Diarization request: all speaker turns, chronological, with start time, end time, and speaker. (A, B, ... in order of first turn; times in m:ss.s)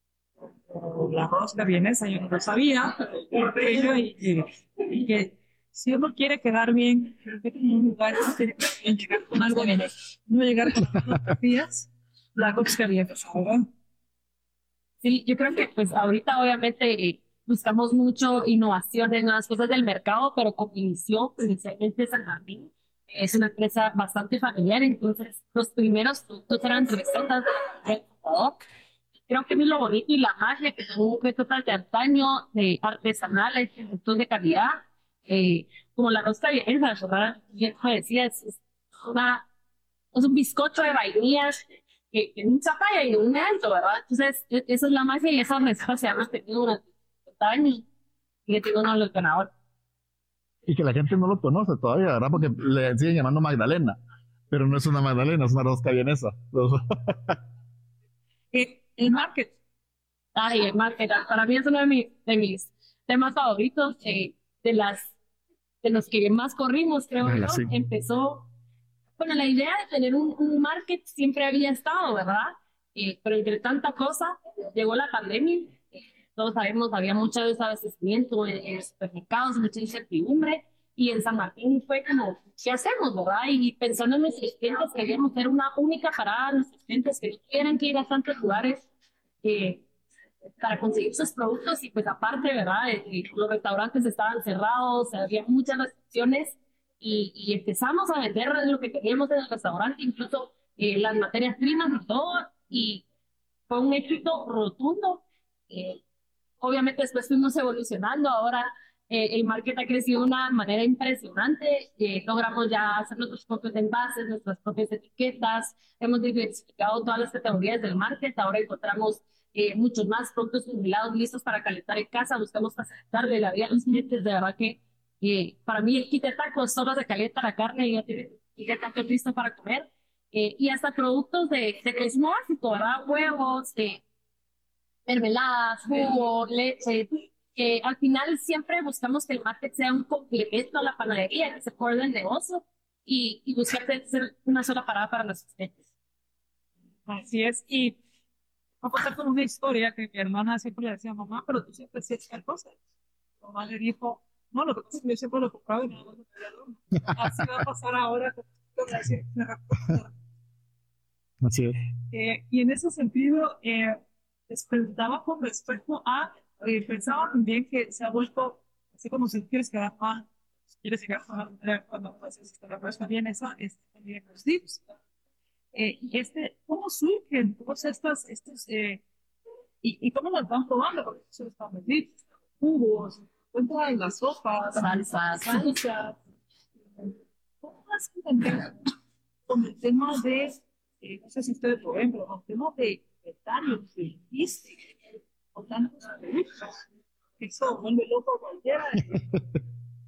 0:00.7-0:13.7 A
0:15.0-0:28.6 B
0:29.3-0:39.4 B
0:40.1-0:41.6 B
0:42.1-0:47.8 B
0:48.5-0:49.5 B
0:50.6-0:54.0 C
0:54.5-0:57.4 C
0:58.5-0:59.5 A
1:00.4-1:05.1 B
1:05.8-1:08.5 B
1:07.2-1:07.7 C
1:09.2-1:15.8 B
1:16.4-1:28.8 B
1:29.4-1:29.8 B
1:30.6-1:43.0 B
1:43.7-1:46.0 B
1:46.6-2:14.0 B
2:15.0-2:25.8 B
2:27.1-2:28.0 A
2:28.8-2:32.7 A
2:33.4-2:40.1 A
2:41.4-2:41.8 C
2:42.1-2:50.3 A
2:50.8-2:54.8 A
2:55.7-2:59.0 A
2:59.8-3:06.1 A
3:04.8-3:05.8 B
3:07.6-3:08.7 A
3:09.5-3:14.9 A
3:15.5-3:16.8 A
3:17.4-3:19.2 A